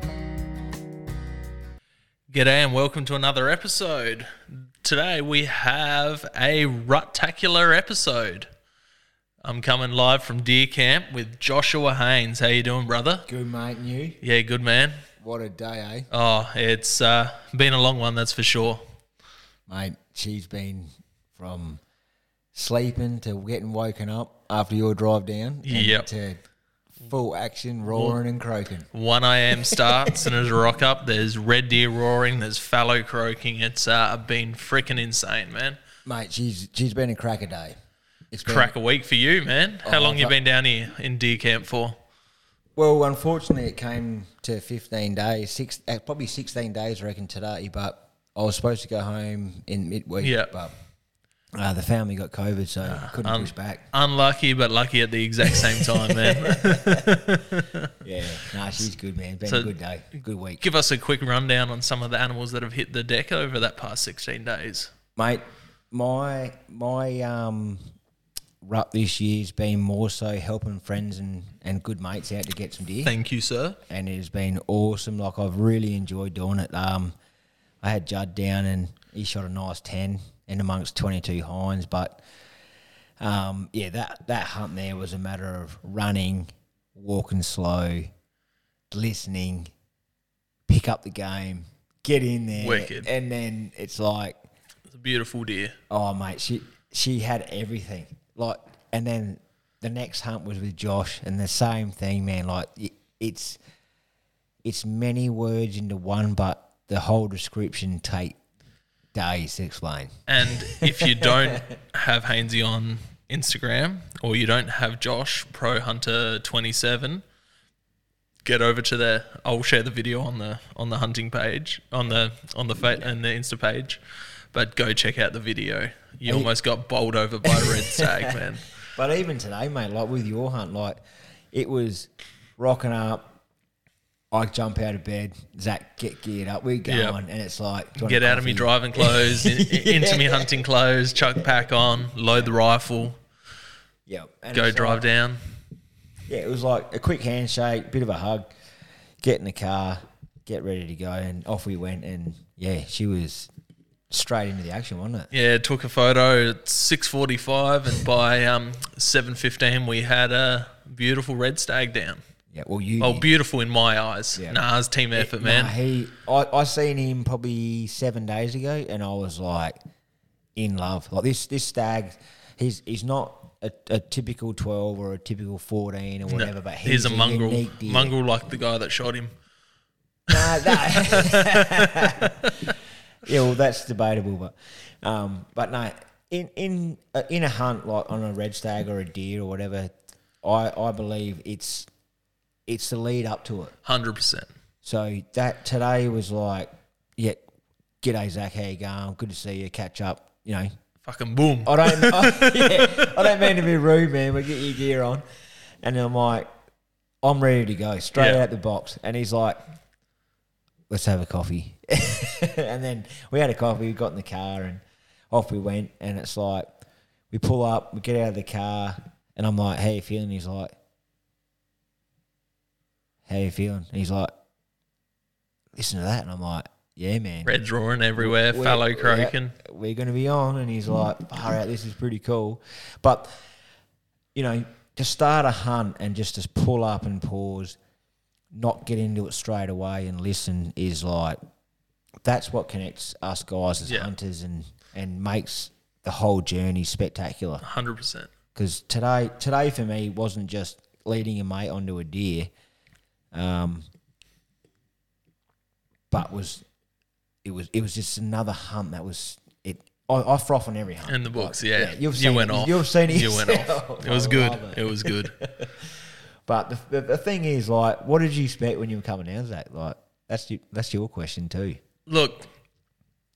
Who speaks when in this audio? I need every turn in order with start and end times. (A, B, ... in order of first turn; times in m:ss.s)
0:02.3-0:08.5 A
0:09.4-0:13.3 A
0:13.3-0:14.2 B
0:14.2-0:15.0 A
0:15.2-0:16.1 B
0:16.1-0:18.8 A
0:19.7-0:21.8 B
0:22.5-0:26.4 B
0:25.6-0:26.1 A
0:27.0-0:28.9 B
0:27.9-0:28.2 A
0:28.9-0:35.8 A
0:29.6-0:30.3 B
0:36.0-0:37.8 B
0:38.3-0:38.7 B
0:38.4-0:42.0 A
0:39.8-0:40.3 B
0:42.8-0:50.7 B
0:50.2-0:50.5 A
0:51.5-0:53.8 B
0:52.8-0:57.9 A
0:55.4-0:57.2 B
0:58.0-1:00.6 B
0:59.4-0:59.7 A
1:00.6-1:04.9 A
1:05.2-1:07.8 B
1:08.6-1:13.1 B
1:13.0-1:13.8 A
1:13.9-1:17.1 B
1:17.8-1:22.2 B
1:23.2-1:28.1 B
1:28.9-1:29.7 B
1:30.7-1:34.4 B
1:32.6-1:33.1 A
1:34.9-1:35.8 A
1:35.9-1:43.6 B
1:44.6-1:48.4 B
1:49.1-1:51.6 B
1:50.3-1:57.2 A
1:58.4-2:04.0 A
2:04.5-2:08.7 A
2:06.2-2:06.5 B
2:07.4-2:08.4 B
2:08.9-2:11.0 B
2:11.5-2:13.3 B
2:14.3-2:20.6 B
2:16.8-2:17.2 A
2:18.0-2:23.2 A
2:24.1-2:25.0 B
2:24.5-2:25.4 A
2:26.3-2:28.4 B
2:29.2-2:33.5 B
2:34.1-2:35.3 B
2:35.3-2:42.2 A
2:42.5-2:43.3 B
2:43.0-2:45.7 A
2:45.1-2:49.8 B
2:50.6-2:58.1 B
2:56.3-2:59.3 A
3:00.3-3:02.5 B
3:00.3-3:02.7 A
3:03.2-3:11.9 B
3:12.6-3:13.7 B
3:13.8-3:14.5 A
3:14.8-3:17.4 B
3:18.0-3:20.7 B
3:21.0-3:23.1 A
3:21.6-3:25.2 B
3:25.8-3:26.5 B
3:27.2-3:29.6 B
3:28.2-3:28.4 A
3:30.9-3:36.7 B
3:37.3-3:40.7 B
3:43.2-3:44.3 B
3:45.7-3:47.5 B
3:47.4-3:49.6 A
3:48.2-3:53.3 B
3:54.3-3:57.8 B
3:58.5-4:01.4 B
4:02.2-4:07.6 B
4:03.8-4:04.1 A
4:07.6-4:08.3 A
4:08.5-4:12.5 B
4:13.3-4:13.9 B
4:16.1-4:16.6 B
4:17.4-4:25.8 B
4:21.1-4:25.4 A
4:26.4-4:31.8 B
4:32.1-4:32.5 A